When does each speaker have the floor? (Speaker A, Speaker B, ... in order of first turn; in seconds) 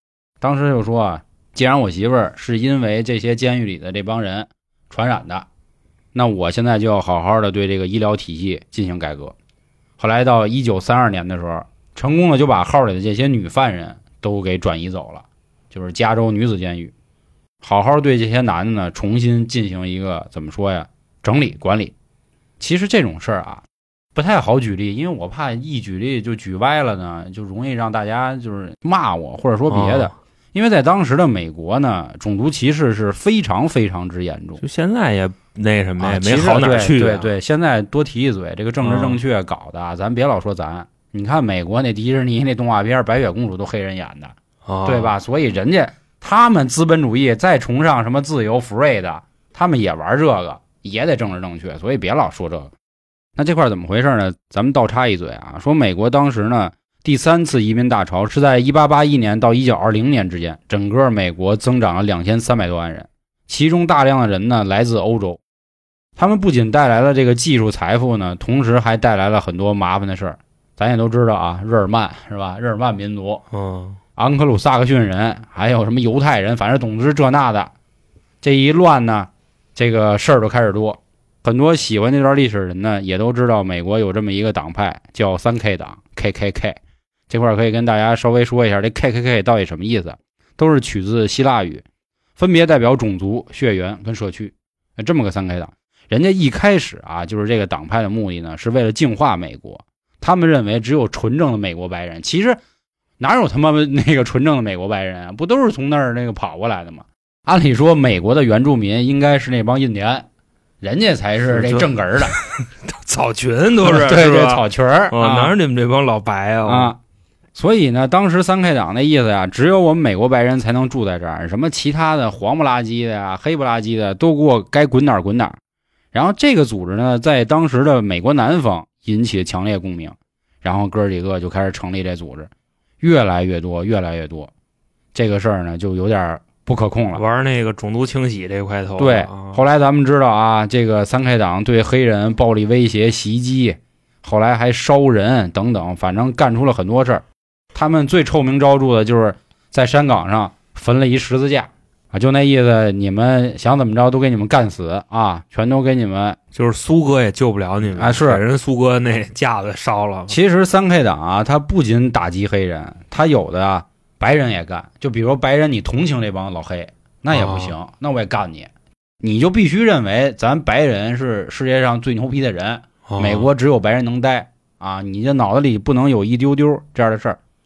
Speaker A: 0.4-5.5, 6.1-9.3, 10.0-16.9, 17.6-21.9, 22.6-23.6, 24.1-34.6, 36.0-52.7, 53.4-65.4, 66.2-73.4, 74.2-77.7, 78.4-86.8, 87.3-91.8, 92.4-102.6, 103.2-110.3, 110.8-112.4, 113.8-115.5, 116.7-117.0, 117.5-125.6, 126.1-132.5, 133.0-134.5, 135.1-137.2, 139.0-156.4, 157.9-158.4, 160.3-168.7, 169.2-177.4
Speaker B: 29.7-30.1, 34.6-37.3, 38.8-39.2, 44.6-45.1, 73.5-74.0, 111.5-116.9, 137.1-139.6, 156.5-160.4, 167.3-167.7, 173.1-173.5